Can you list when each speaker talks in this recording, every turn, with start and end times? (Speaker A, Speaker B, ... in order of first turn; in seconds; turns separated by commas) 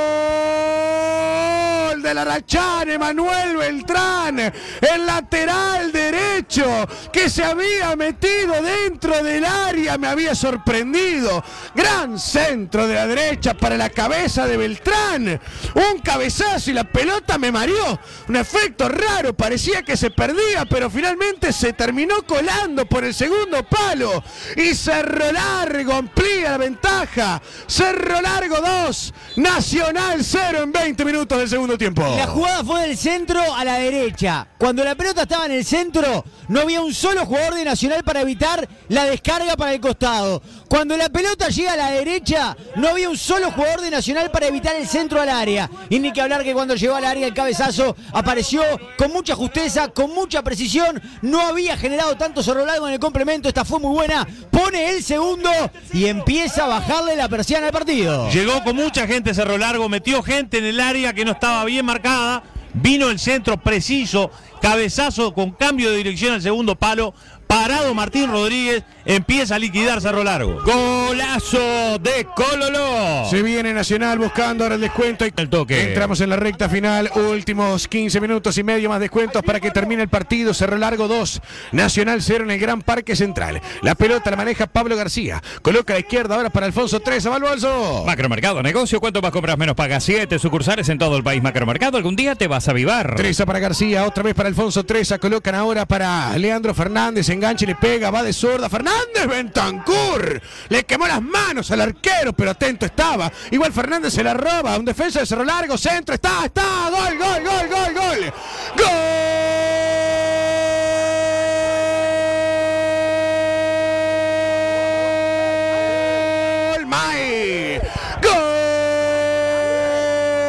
Speaker A: 0.5-32.4, Speaker B: 32.0-58.4, Speaker C: 58.2-70.6, Speaker D: 70.6-73.4, Speaker A: 73.2-88.1, Speaker D: 75.4-76.1, Speaker D: 88.0-93.3, Speaker A: 93.1-110.0, Speaker A: 116.3-120.1